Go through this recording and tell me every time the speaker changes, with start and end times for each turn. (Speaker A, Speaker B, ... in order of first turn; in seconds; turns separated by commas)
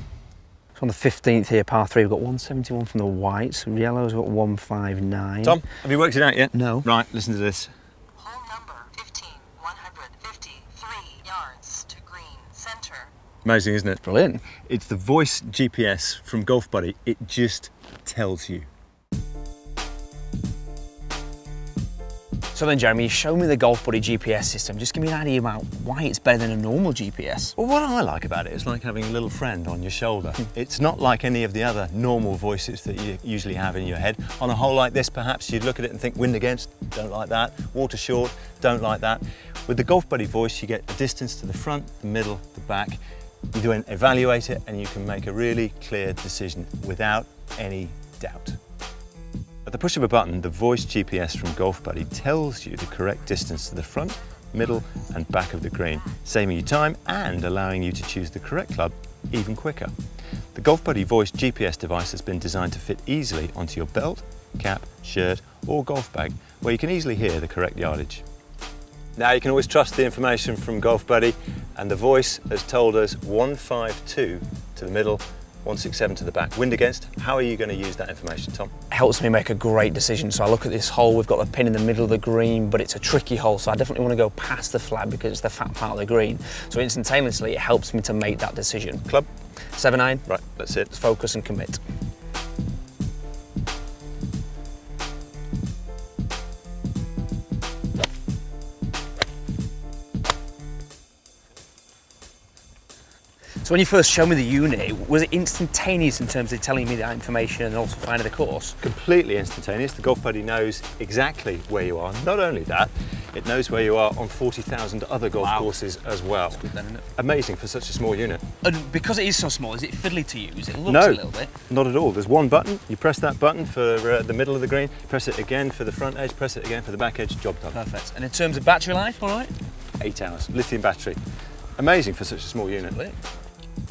Speaker A: 0.8-5.6, Speaker B: 5.4-7.7, Speaker A: 6.5-6.9, Speaker C: 8.2-13.1, Speaker B: 13.4-14.0, Speaker A: 14.0-14.4, Speaker B: 14.6-18.7, Speaker A: 22.5-27.5, Speaker B: 27.6-43.0, Speaker B: 43.5-48.6, Speaker B: 49.7-59.9, Speaker B: 60.5-68.2, Speaker B: 69.2-78.7, Speaker A: 78.9-89.1, Speaker A: 89.8-90.2, Speaker B: 90.3-90.9, Speaker A: 90.8-91.8, Speaker A: 103.6-108.8, Speaker B: 108.8-116.6, Speaker A: 115.4-115.8, Speaker A: 116.5-117.0, Speaker B: 117.2-118.4, Speaker A: 118.6-121.5, Speaker B: 120.9-127.8, Speaker A: 127.7-129.5, Speaker B: 130.0-131.2, Speaker B: 131.8-133.0, Speaker A: 132.9-133.2